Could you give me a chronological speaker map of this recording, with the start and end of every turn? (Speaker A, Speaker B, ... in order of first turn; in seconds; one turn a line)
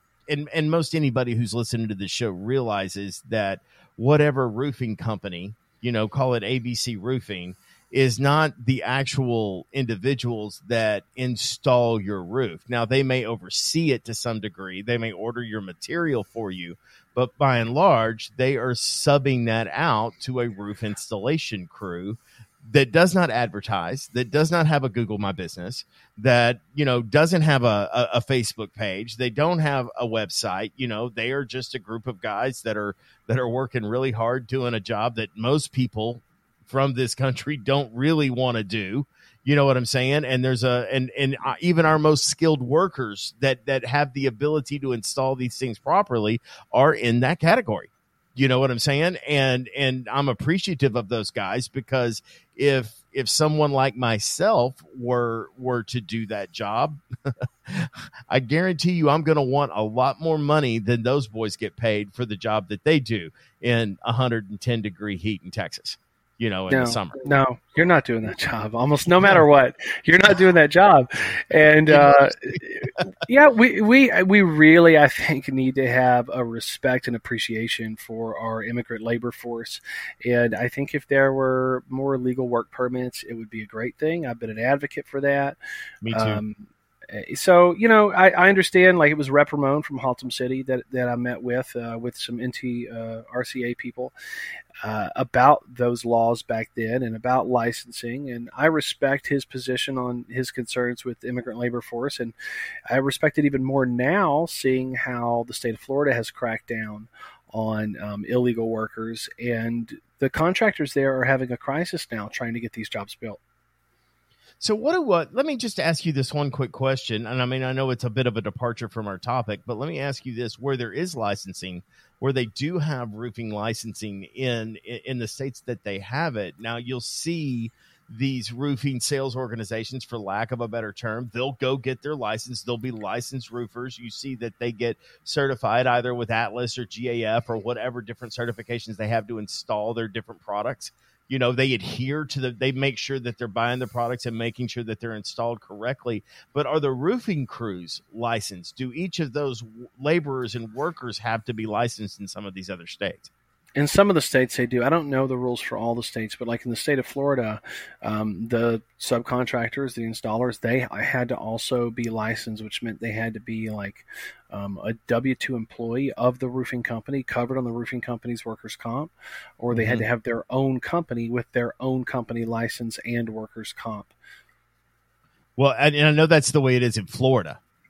Speaker A: 0.3-67.2
Speaker B: 66.7-85.6
Speaker A: 71.9-72.8
Speaker A: 86.0-86.4
Speaker B: 86.1-94.1
Speaker B: 94.8-102.3
Speaker B: 102.9-113.4
Speaker A: 114.6-153.3
Speaker B: 153.8-174.1
Speaker A: 169.7-170.0
Speaker A: 175.6-177.6